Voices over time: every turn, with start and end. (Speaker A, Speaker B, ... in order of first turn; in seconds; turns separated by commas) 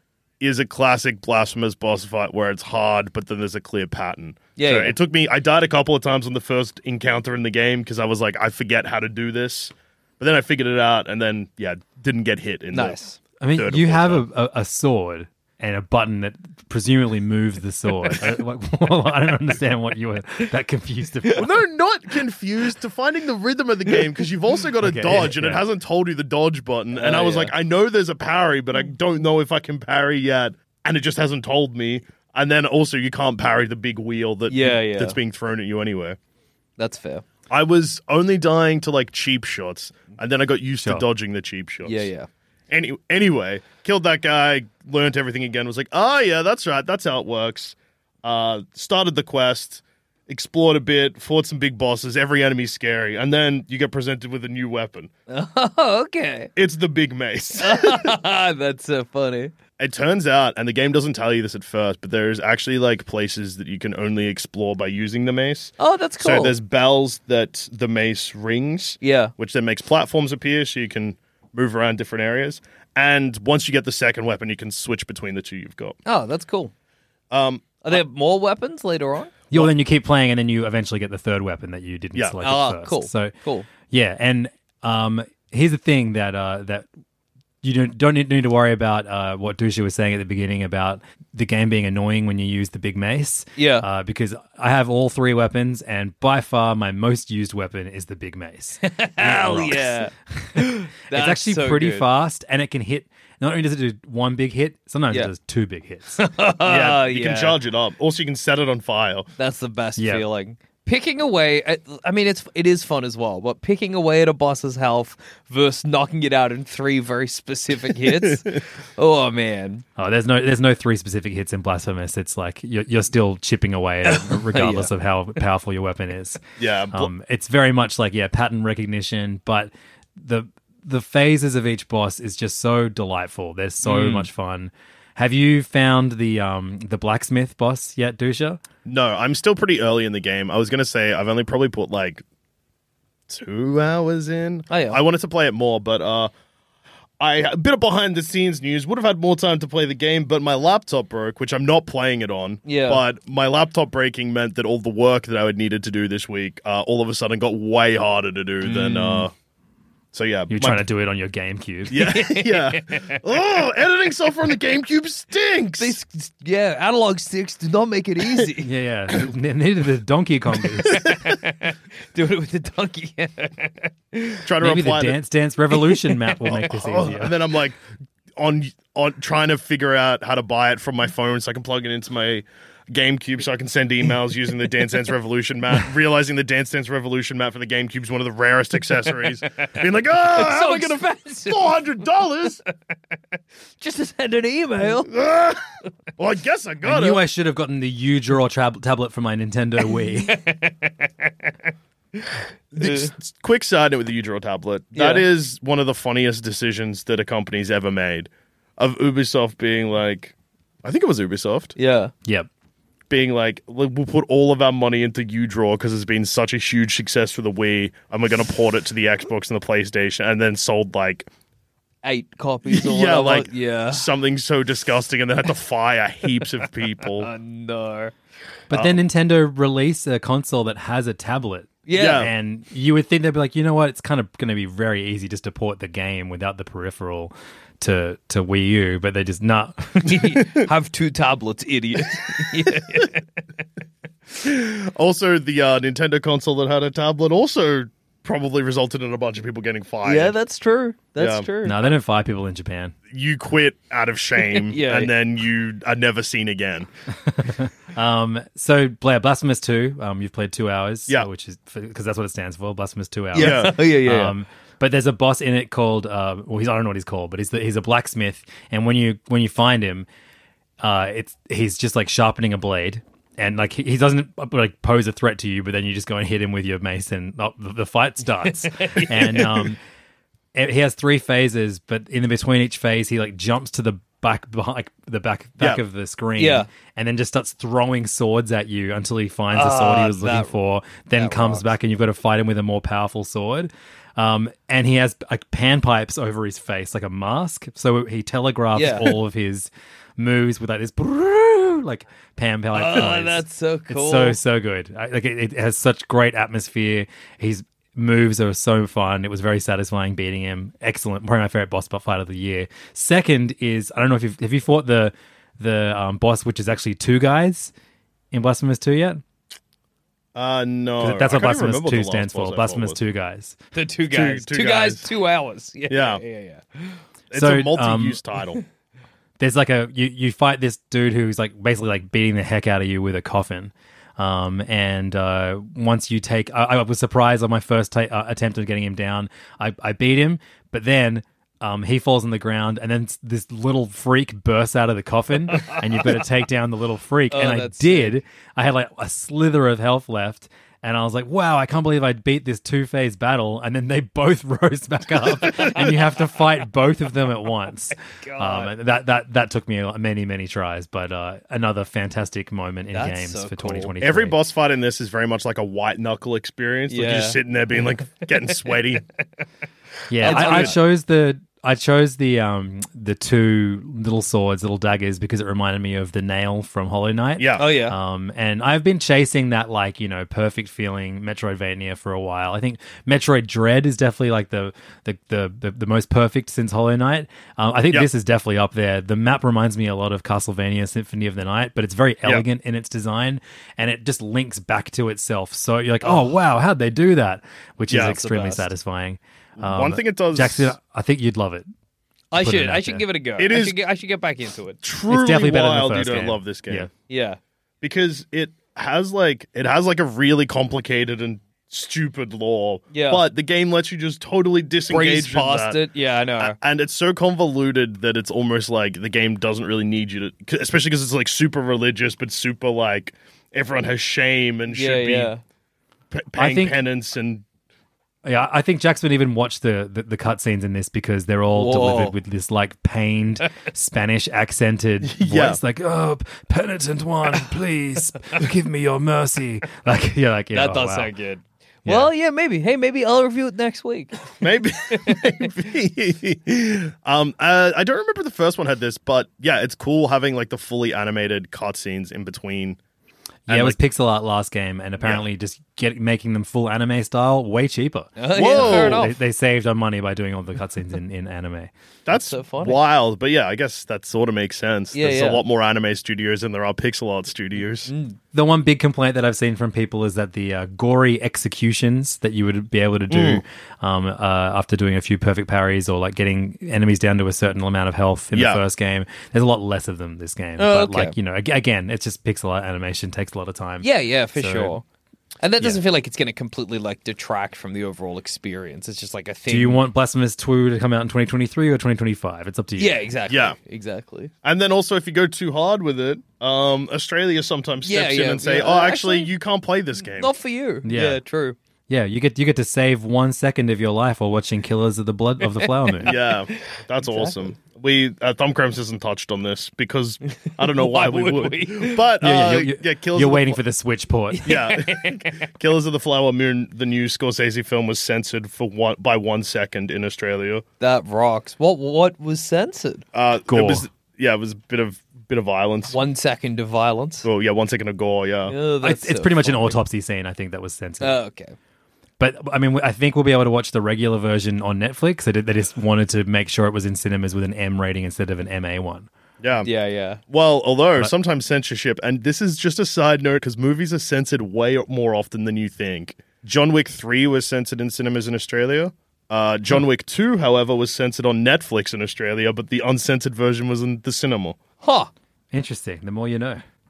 Speaker A: 0.4-13.0, Speaker B: 4.6-5.0, Speaker B: 12.7-13.2, Speaker C: 13.4-21.5, Speaker A: 13.5-14.3, Speaker A: 21.4-36.2, Speaker C: 24.8-25.6, Speaker B: 26.9-27.5, Speaker B: 34.5-35.2, Speaker B: 36.8-37.2, Speaker A: 37.5-42.1, Speaker C: 40.8-41.1, Speaker B: 41.9-42.3, Speaker A: 42.7-55.1, Speaker B: 55.3-56.5, Speaker A: 56.6-58.1, Speaker B: 57.6-59.5, Speaker A: 59.8-76.0, Speaker B: 65.8-66.6, Speaker B: 69.0-69.3, Speaker B: 76.1-76.7, Speaker A: 77.3-78.0, Speaker B: 77.8-79.4, Speaker C: 79.5-86.9, Speaker A: 82.2-82.5, Speaker B: 82.4-83.7, Speaker C: 87.6-106.2, Speaker B: 93.6-93.9, Speaker B: 98.8-102.1, Speaker B: 106.2-107.6, Speaker A: 106.7-109.3, Speaker B: 109.4-119.8, Speaker C: 110.0-110.3, Speaker C: 120.0-126.4, Speaker B: 124.1-124.9, Speaker A: 126.6-127.1, Speaker C: 126.9-138.6, Speaker B: 133.8-134.3, Speaker A: 138.8-142.2, Speaker A: 143.3-146.3, Speaker B: 144.7-145.0, Speaker A: 147.2-159.3, Speaker B: 152.7-153.0, Speaker B: 158.6-159.3, Speaker A: 160.1-160.9, Speaker C: 160.5-162.0, Speaker A: 161.9-166.0, Speaker B: 162.0-163.2, Speaker B: 165.8-168.7, Speaker C: 168.6-171.0, Speaker B: 170.9-174.4, Speaker A: 174.5-175.2, Speaker C: 174.6-177.4, Speaker B: 175.9-176.5, Speaker A: 176.5-177.8, Speaker A: 178.4-192.6, Speaker B: 190.2-191.9, Speaker B: 193.8-195.1, Speaker A: 195.1-195.7, Speaker A: 196.2-197.2, Speaker C: 196.8-200.4, Speaker B: 200.3-201.1, Speaker A: 202.8-211.8, Speaker B: 202.8-203.1, Speaker B: 204.9-205.3, Speaker B: 211.8-212.1, Speaker A: 213.1-221.3, Speaker B: 222.0-224.1, Speaker A: 222.7-227.3, Speaker B: 227.2-228.1, Speaker C: 228.7-240.2, Speaker A: 228.7-229.0, Speaker B: 231.9-232.3, Speaker A: 231.9-232.3, Speaker B: 240.0-243.2, Speaker A: 244.4-250.3, Speaker B: 250.0-251.8, Speaker A: 251.2-251.5, Speaker C: 251.6-252.9, Speaker A: 253.1-256.9, Speaker B: 254.5-255.1, Speaker C: 257.3-270.1, Speaker B: 263.3-264.3, Speaker A: 263.4-263.8, Speaker C: 270.8-279.8, Speaker B: 278.6-279.7, Speaker C: 280.6-317.7, Speaker B: 286.4-286.7, Speaker B: 289.5-290.5, Speaker B: 291.1-291.7, Speaker B: 298.8-299.1, Speaker B: 302.7-304.4, Speaker C: 318.3-319.2, Speaker A: 320.4-323.0, Speaker C: 321.0-323.6, Speaker B: 323.8-327.0, Speaker A: 324.1-325.1, Speaker A: 325.9-326.2, Speaker A: 327.3-328.6, Speaker C: 327.3-328.2, Speaker C: 329.4-364.4, Speaker B: 347.3-348.1, Speaker B: 355.4-355.9, Speaker B: 358.2-358.7, Speaker B: 362.9-363.9, Speaker A: 364.0-369.0, Speaker B: 366.9-367.4, Speaker C: 370.1-401.7, Speaker A: 370.2-370.8, Speaker B: 370.2-370.8, Speaker A: 377.4-377.7, Speaker B: 377.6-377.9, Speaker A: 397.9-398.2, Speaker B: 398.0-398.7, Speaker A: 399.6-400.8, Speaker B: 402.3-404.8, Speaker C: 402.4-403.1, Speaker A: 403.4-403.8, Speaker A: 404.8-406.9, Speaker C: 405.1-406.9, Speaker B: 407.1-407.4, Speaker A: 407.8-415.8, Speaker B: 412.9-413.2, Speaker B: 414.9-416.6, Speaker A: 416.4-425.3, Speaker B: 424.7-425.4, Speaker A: 426.1-427.4, Speaker C: 426.4-426.8, Speaker C: 428.2-441.1, Speaker B: 431.5-432.1, Speaker A: 435.1-435.6, Speaker B: 440.5-444.4, Speaker A: 444.4-452.8, Speaker B: 444.9-445.2, Speaker A: 453.5-453.8, Speaker C: 453.5-461.7, Speaker A: 455.0-455.3, Speaker B: 458.2-459.1, Speaker A: 458.3-459.1, Speaker A: 462.1-467.9, Speaker B: 462.1-462.8, Speaker B: 464.9-465.4, Speaker B: 467.9-468.2, Speaker C: 468.3-484.8, Speaker A: 473.1-473.4, Speaker A: 478.3-478.6, Speaker B: 480.6-481.1, Speaker B: 483.8-484.8, Speaker B: 485.4-489.8, Speaker C: 489.5-493.0, Speaker B: 492.8-494.3, Speaker A: 493.3-493.6, Speaker A: 494.4-500.3, Speaker B: 497.8-499.3, Speaker B: 500.1-501.6, Speaker C: 500.8-501.2, Speaker C: 501.9-506.2, Speaker B: 505.4-506.2, Speaker A: 506.1-513.6, Speaker B: 507.0-507.4, Speaker B: 510.6-512.0, Speaker C: 512.2-514.5, Speaker B: 514.3-515.4, Speaker A: 514.5-520.6, Speaker B: 520.8-523.0, Speaker A: 523.1-526.0, Speaker C: 523.5-523.9, Speaker B: 525.9-527.3, Speaker A: 527.2-528.6, Speaker B: 528.5-529.8, Speaker C: 528.8-531.2, Speaker B: 531.0-531.5, Speaker C: 532.2-539.1, Speaker A: 539.4-539.7, Speaker B: 539.6-540.2, Speaker A: 540.3-554.6, Speaker B: 554.8-555.1, Speaker C: 555.5-556.6